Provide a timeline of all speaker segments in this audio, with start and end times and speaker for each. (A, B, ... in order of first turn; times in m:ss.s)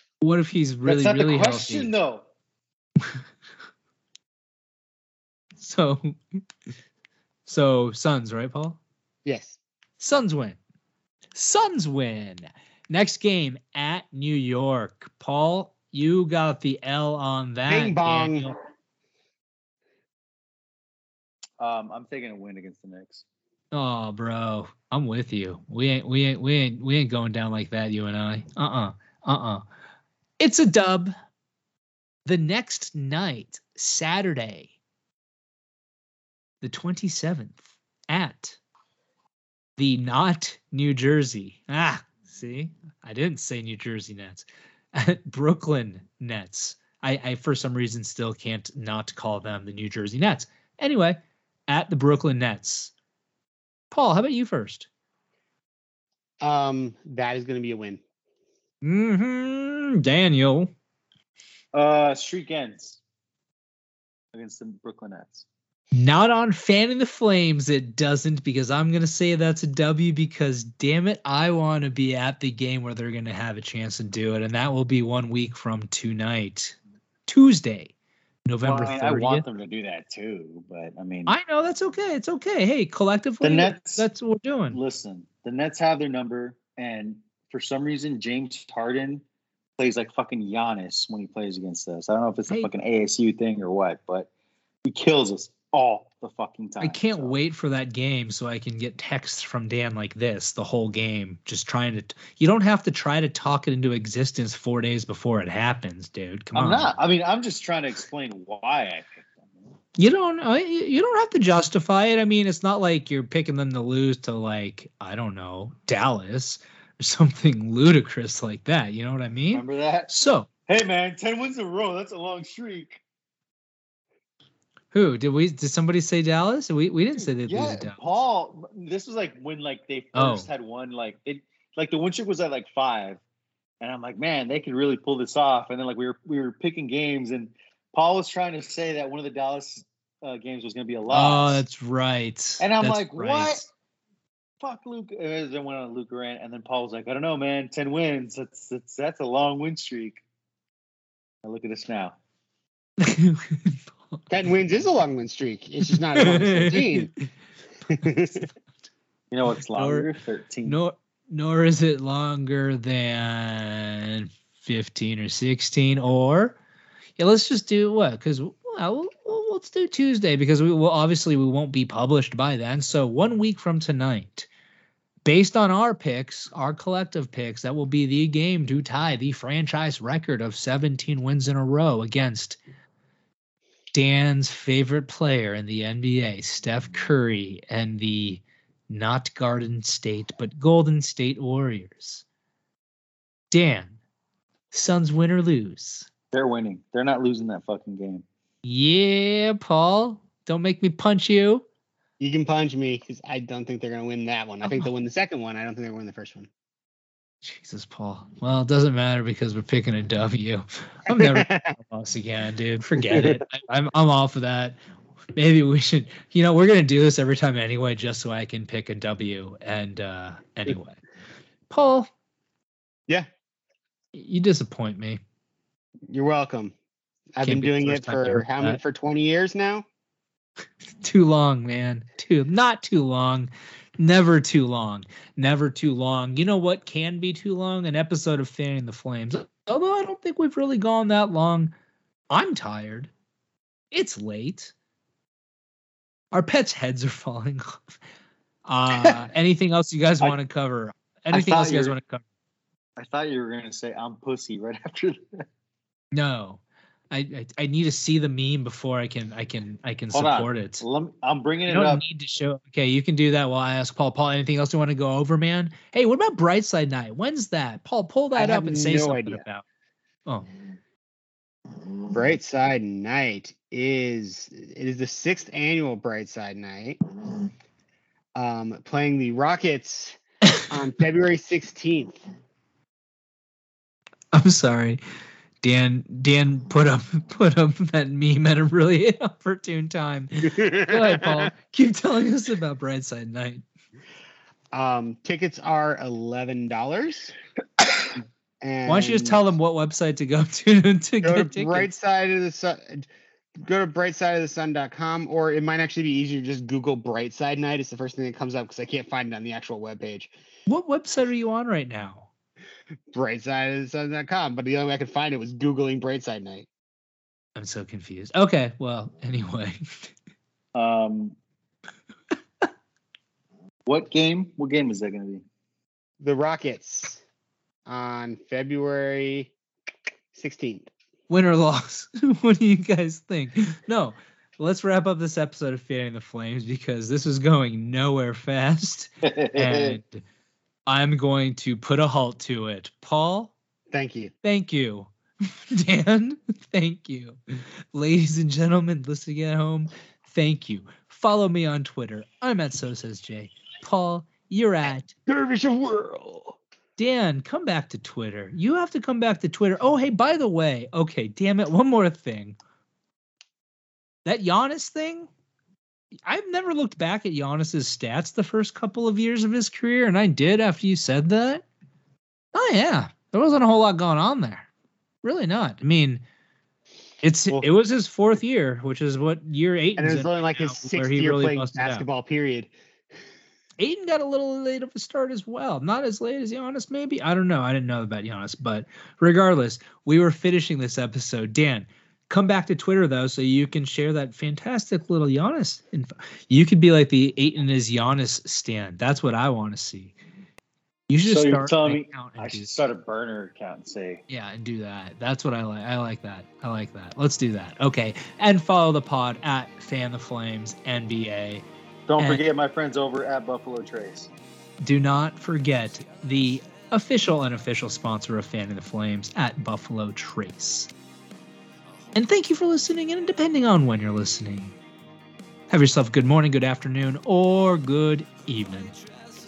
0:00.2-0:01.9 A
0:00.8-0:02.3 B
0:05.6-0:06.2 A
0:07.5-0:08.8 A
0:09.2-0:09.6 C
0:10.0-0:10.6 A
0:11.4-0:18.6 A
0:17.7-0:18.5 C
0:21.6-0:23.2 B
0:23.7-0:29.6 A
0:30.4-0:31.1 A
0:32.3-0:34.8 A
0:36.6-0:38.6 A
0:39.8-0:52.9 A
0:53.9-0:54.9 A
0:56.4-0:58.0 C
0:58.8-1:00.7 A
1:01.7-1:03.0 B
1:04.3-1:05.5 B
1:05.9-1:17.9 A
1:18.5-1:19.4 A
1:18.6-1:21.4 B
1:21.3-1:24.8 A
1:23.4-1:24.1 B
1:24.7-1:29.2 B
1:29.8-1:34.3 B
1:34.8-1:37.4 B
1:36.8-1:46.9 A
1:46.6-1:49.5 B
1:50.0-2:00.5 A
1:59.5-2:00.1 B
2:00.7-2:03.0 B
2:04.9-2:08.0 A
2:07.2-2:13.2 B
2:10.1-2:10.5 A
2:13.8-2:21.6 B
2:21.1-2:23.6 A
2:22.6-2:23.7 B
2:24.6-2:30.2 B
2:31.4-2:32.2 B
2:33.0-2:34.3 A
2:34.3-2:37.1 C
2:36.1-2:37.3 A
2:37.9-2:38.5 C
2:39.3-2:40.8 B
2:39.7-2:40.1 A
2:40.7-2:46.6 A
2:47.2-2:54.5 A
2:55.2-3:02.6 A
3:03.9-3:12.2 A
3:13.5-3:14.0 A
3:14.7-3:16.1 A
3:16.3-3:18.2 B
3:18.6-3:21.6 A
3:22.2-3:26.5 C
3:24.6-3:24.9 A
3:27.4-3:34.8 A
3:31.1-3:31.8 C
3:33.0-3:33.4 C
3:35.4-3:41.0 A
3:41.7-3:42.1 A
3:44.1-3:45.2 A
3:46.1-3:46.7 C
3:47.3-3:49.9 C
3:47.4-3:48.8 A
3:51.0-4:01.7 A
4:02.3-4:03.1 A
4:03.9-4:04.7 A
4:06.3-4:07.9 A
4:08.7-4:12.2 A
4:11.3-4:12.0 B
4:13.0-4:15.4 B
4:16.1-4:20.8 A
4:20.1-4:22.0 B
4:21.7-4:29.6 A
4:28.4-4:29.4 C
4:32.1-4:37.0 C
4:38.4-4:42.2 C
4:44.3-4:45.0 A
4:45.6-4:53.6 A
4:50.6-4:51.5 C
4:54.7-4:57.3 C
4:58.6-4:59.4 C
4:58.8-5:01.9 A
5:01.2-5:10.3 C
5:10.7-5:12.3 A
5:13.1-5:16.7 C
5:17.6-5:20.1 A
5:20.8-5:21.4 B
5:23.9-5:25.4 B
5:26.2-5:27.2 C
5:27.9-5:29.5 C
5:30.3-5:30.9 C
5:31.3-5:40.2 A
5:39.2-5:40.0 B
5:40.9-5:43.5 A
5:43.9-5:44.3 C
5:44.4-5:55.1 A
5:55.3-5:56.6 C
5:57.0-6:02.6 A
6:04.2-6:05.3 A
6:06.3-6:11.6 A
6:12.5-6:14.7 A
6:15.2-6:16.2 A
6:17.2-6:22.0 A
6:20.0-6:22.7 C
6:23.8-6:40.2 A
6:41.1-6:42.7 A
6:41.2-6:44.2 B
6:44.3-6:51.6 A
6:52.1-6:54.3 B
6:54.8-7:00.9 A
7:02.2-7:04.7 A
7:05.7-7:08.9 A